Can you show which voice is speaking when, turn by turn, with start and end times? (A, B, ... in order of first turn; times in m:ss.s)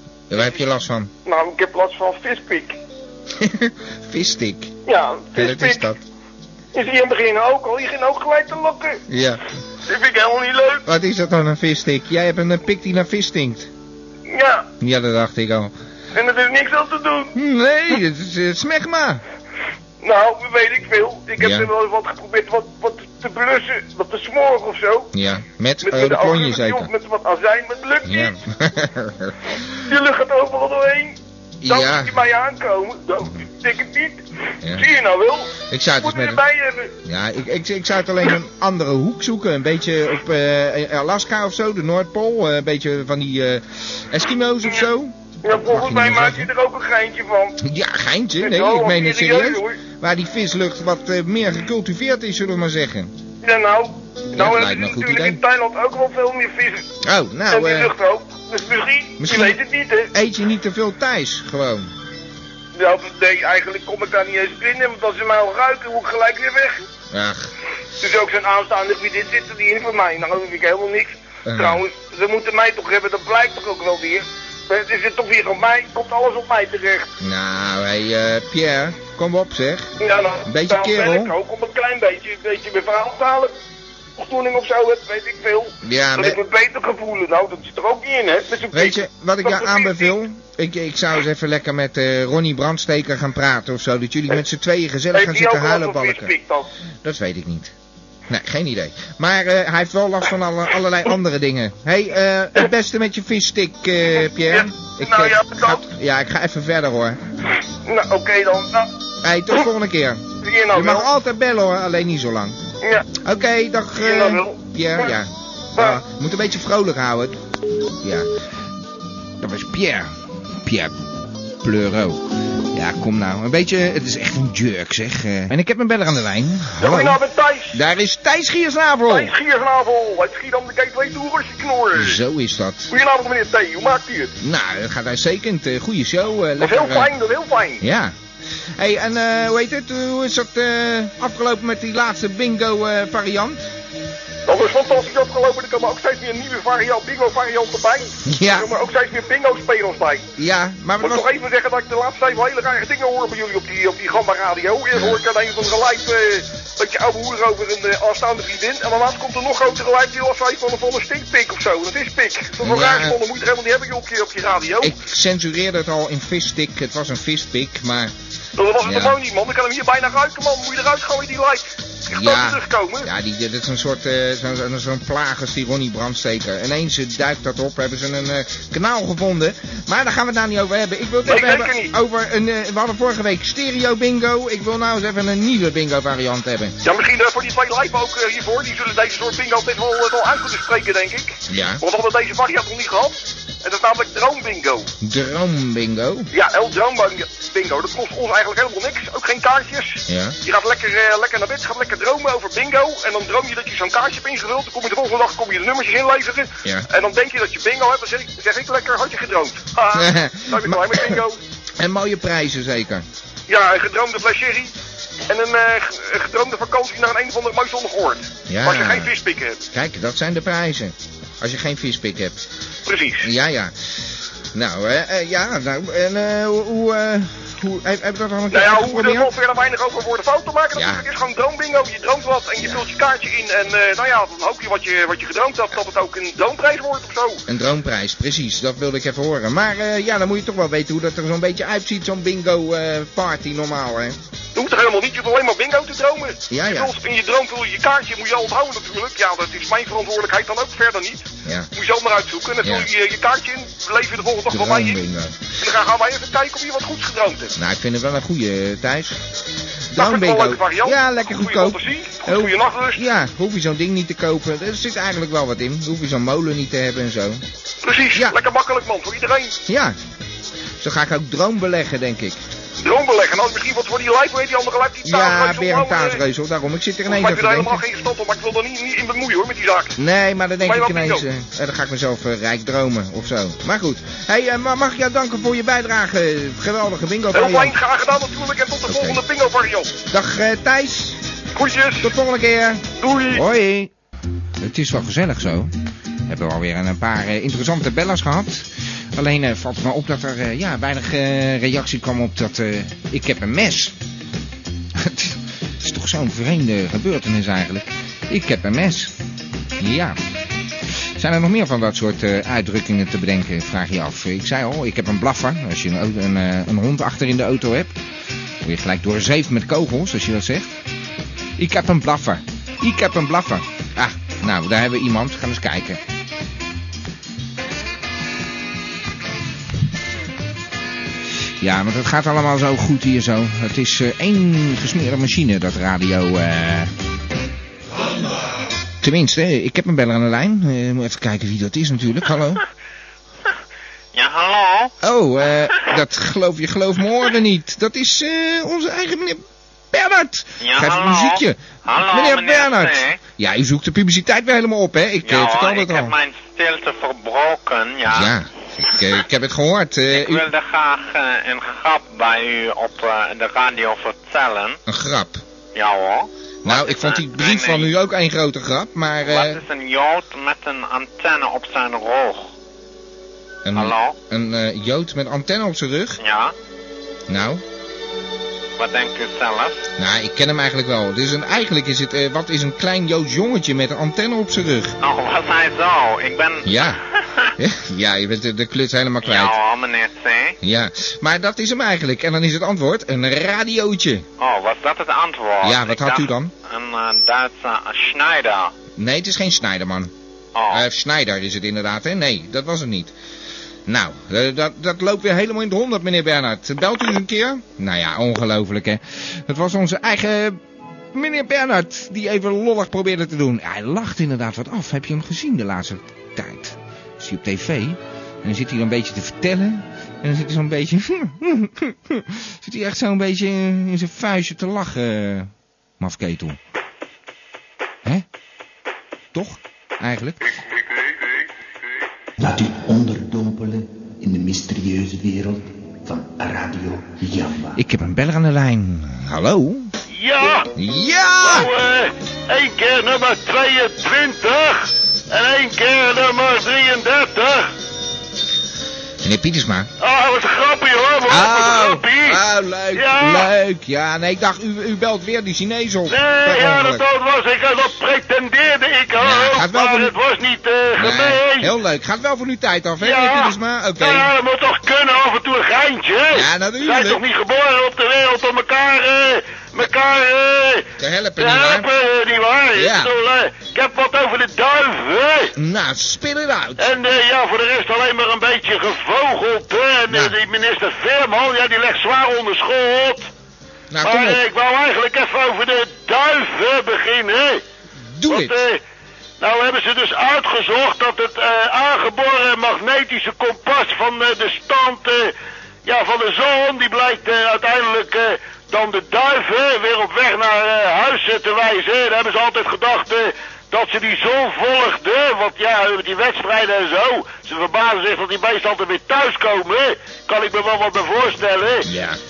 0:00.3-0:01.1 A
0:01.2-0:02.8 B
0:03.4-0:04.7 A
0:04.8-0:05.9 B
0:05.3-0:06.0 A
0:06.7-0:09.0 B
0:09.1-0:09.4 A
0:09.9-0:10.8 B
0:10.8-0:13.7 A
0:14.3-0:14.7 B
0:14.8-0:15.7 A
0:16.1-0:17.3 B
0:17.3-0:19.2 A
0:20.0-0:25.1 B
0:21.4-0:21.7 A
0:25.1-0:26.9 A
0:25.8-0:28.3 B
0:28.0-0:29.6 A
0:29.9-0:34.2 B
0:31.6-0:32.1 A
0:34.7-0:36.9 B
0:35.7-0:36.4 A
0:37.0-0:46.5 A
0:45.4-0:47.6 B
0:47.6-0:53.1 A
0:48.4-0:49.8 B
0:53.4-0:56.9 B
0:54.4-0:55.4 A
0:57.0-0:57.9 A
0:57.5-1:00.1 B
0:59.2-0:59.6 A
1:00.1-1:01.9 A
1:02.8-1:06.8 B
1:07.1-1:07.5 A
1:08.0-1:17.1 B
1:11.4-1:11.8 A
1:17.2-1:19.9 A
1:20.0-1:23.5 B
1:20.5-1:21.3 A
1:24.2-1:30.1 B
1:25.8-1:26.4 A
1:28.7-1:36.3 A
1:35.1-1:36.7 B
1:37.0-1:37.7 A
1:38.3-1:47.2 A
1:44.5-1:45.8 B
1:47.8-1:48.9 B
1:49.2-1:52.6 A
1:50.4-1:51.1 B
1:52.8-1:53.1 B
1:53.1-1:57.4 A
1:54.0-1:55.1 B
1:58.0-1:58.3 A
1:59.4-2:00.9 A
2:01.6-2:07.2 A
2:06.8-2:07.8 B
2:07.7-2:09.3 A
2:09.1-2:12.2 B
2:11.9-2:12.9 A
2:12.9-2:14.3 B
2:14.4-2:17.1 A
2:16.6-2:17.8 B
2:17.8-2:18.2 A
2:18.8-2:23.6 A
2:24.4-2:30.2 B
2:28.2-2:28.7 A
2:30.4-2:31.3 A
2:31.0-2:44.9 B
2:34.9-2:35.2 A
2:42.6-2:43.2 A
2:44.8-2:48.1 A
2:48.6-2:53.1 B
2:48.8-2:49.2 A
2:52.1-3:06.8 A
3:01.2-3:01.9 B
3:06.8-3:14.9 B
3:11.5-3:11.8 A
3:15.0-3:16.3 A
3:16.3-3:31.4 B
3:20.1-3:20.4 A
3:29.9-3:31.2 A
3:31.8-3:33.0 A
3:33.5-3:34.7 B
3:35.3-3:39.6 B
3:38.5-3:39.1 A
3:39.7-3:42.4 A
3:42.8-3:43.3 B
3:43.2-3:49.3 A
3:48.5-3:57.4 B
3:50.7-3:51.0 A
3:57.5-4:04.2 A
4:04.5-4:15.0 B
4:06.5-4:06.9 A
4:11.4-4:11.7 A
4:12.6-4:12.9 A
4:14.5-4:15.4 A
4:15.6-4:17.5 B
4:17.6-4:19.2 A
4:19.9-4:27.4 A
4:19.9-4:23.0 B
4:27.8-4:29.6 B
4:29.7-4:30.0 A
4:30.8-4:32.4 A
4:32.8-4:36.2 B
4:35.0-4:37.8 A
4:37.1-4:40.0 B
4:40.0-4:47.8 A
4:40.6-4:41.2 B
4:47.3-4:49.9 B
4:48.9-4:49.2 A
4:50.1-4:51.2 A
4:51.5-4:52.1 B
4:52.0-4:53.9 A
4:53.0-4:53.4 B
4:54.6-4:55.7 A
4:56.3-5:03.9 A
5:04.9-5:09.1 A
5:09.8-5:10.2 A
5:11.2-5:17.9 A
5:18.6-5:20.7 A
5:21.6-5:26.0 A
5:31.6-5:36.9 A
5:39.0-5:42.6 A
5:44.1-5:44.9 C
5:45.0-5:56.1 A
5:50.6-5:53.2 C
5:55.2-5:58.3 C
5:58.1-6:00.5 A
6:00.1-6:04.8 C
6:04.9-6:05.4 A
6:05.7-6:07.9 C
6:06.6-6:09.6 A
6:09.2-6:12.5 C
6:13.6-6:16.2 A
6:13.7-6:14.2 C
6:16.2-6:16.5 C
6:17.3-6:17.6 A
6:18.8-6:19.9 C
6:20.0-6:25.0 A
6:25.0-6:27.5 C
6:26.6-6:27.0 A
6:27.6-6:29.5 A
6:29.2-6:30.6 C
6:30.6-6:34.2 A
6:34.4-6:38.7 C
6:35.6-6:36.5 A
6:39.0-6:40.1 A
6:40.5-6:40.8 C
6:40.7-6:43.1 A
6:43.9-6:50.6 A
6:51.1-7:06.6 A
7:09.3-7:10.5 A
7:12.4-7:17.8 D
7:17.8-7:19.9 A
7:20.1-7:20.7 E
7:20.7-7:21.7 A
7:21.4-7:27.7 E
7:29.2-7:29.9 A
7:30.0-7:32.4 E
7:31.3-7:37.0 A
7:32.9-7:33.5 E
7:36.1-7:41.7 E
7:39.2-7:40.1 A
7:41.0-7:44.3 A
7:43.0-7:55.5 E
7:46.3-7:47.2 A
7:51.0-7:51.9 A
7:52.7-7:53.1 A
7:55.6-7:56.9 A
7:56.8-8:03.3 E
8:00.1-8:00.3 A
8:03.9-8:04.4 A
8:04.0-8:07.6 E
8:08.1-8:08.5 A
8:08.3-8:08.8 E
8:09.4-8:15.3 E
8:15.8-8:31.9 E
8:31.8-8:32.2 A